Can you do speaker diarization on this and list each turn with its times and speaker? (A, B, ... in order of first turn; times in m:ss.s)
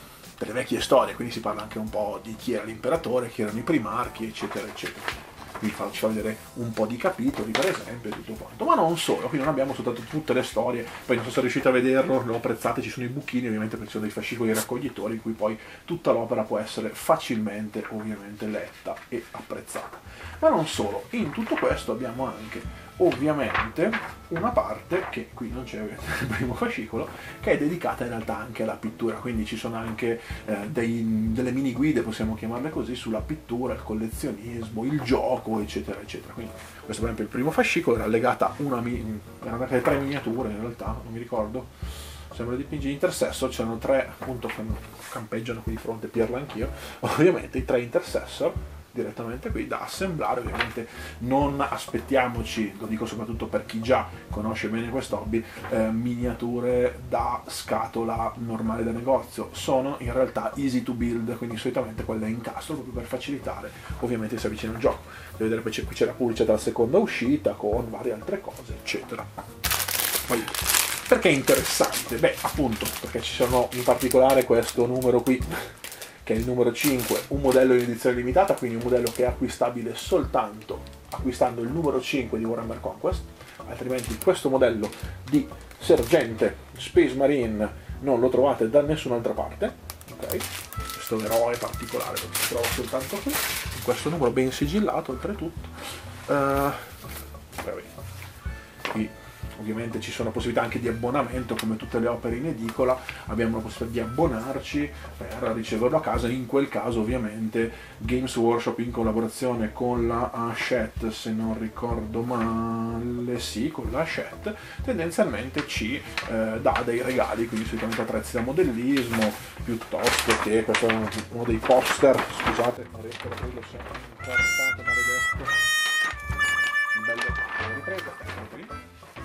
0:00.4-0:41.7 A
0:42.3-1:09.4 A
1:10.2-1:37.0 A
1:37.6-1:38.0 A
1:38.9-2:05.6 A
2:06.9-2:08.7 A